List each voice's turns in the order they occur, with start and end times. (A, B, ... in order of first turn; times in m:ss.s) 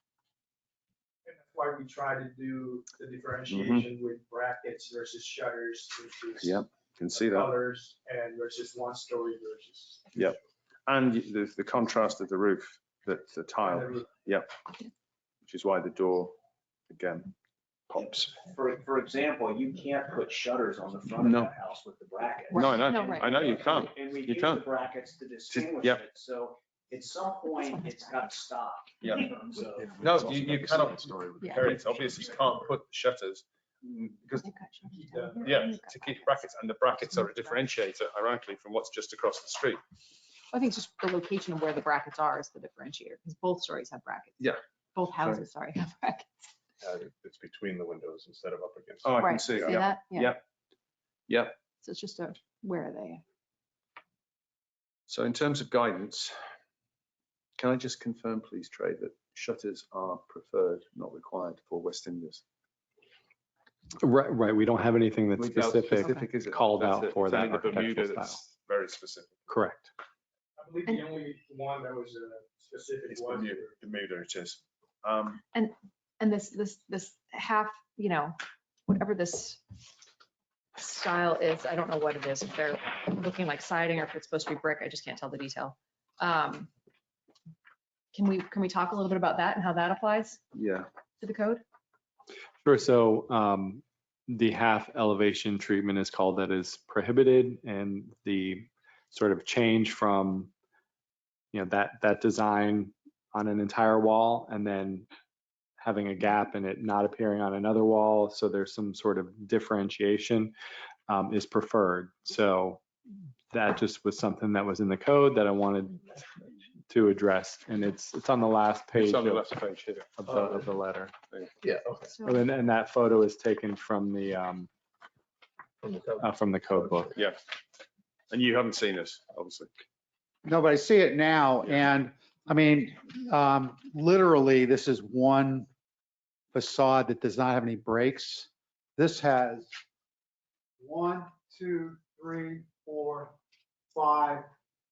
0:01.2-0:10.4 A
0:03.5-0:03.9 B
0:06.4-0:07.5 B
0:10.9-0:14.5 B
0:13.6-0:14.1 A
0:15.5-0:16.4 B
0:16.9-0:17.3 B
0:17.9-0:18.4 B
0:18.0-0:30.0 C
0:21.2-0:21.5 B
0:22.5-0:23.8 D
0:22.5-0:24.7 B
0:25.5-0:26.0 B
0:27.5-0:28.3 D
0:29.0-0:29.3 B
0:29.8-0:31.7 E
0:30.0-0:34.5 B
0:31.4-0:31.7 D
0:34.3-0:36.4 D
0:34.9-0:35.4 A
0:35.4-0:39.8 B
0:37.1-0:37.5 D
0:40.5-0:44.4 D
0:45.0-0:46.3 D
0:46.8-0:49.7 E
0:49.0-0:50.4 B
0:49.2-0:50.4 D
0:51.3-0:51.6 B
0:51.8-0:53.2 D
0:55.1-0:56.4 B
0:57.6-1:02.4 B
1:04.0-1:08.5 F
1:05.4-1:09.5 B
1:06.0-1:06.2 D
1:09.5-1:09.9 F
1:10.6-1:13.7 A
1:13.1-1:15.4 B
1:15.5-1:19.6 D
1:20.8-1:26.7 D
1:28.1-1:30.4 D
1:30.5-1:30.9 B
1:31.2-1:31.6 D
1:32.6-1:40.5 F
1:41.5-1:45.1 F
1:45.8-1:50.5 F
1:51.1-1:52.8 F
1:53.5-1:56.0 F
1:56.9-1:59.5 F
1:59.0-2:00.8 B
2:00.2-2:01.1 F
2:01.6-2:02.1 E
2:02.1-2:02.5 D
2:02.2-2:04.7 F
2:05.8-2:07.2 E
2:06.2-2:07.1 F
2:08.3-2:09.7 B
2:10.4-2:15.7 G
2:16.5-2:19.7 G
2:20.8-2:23.4 G
2:23.9-2:24.5 G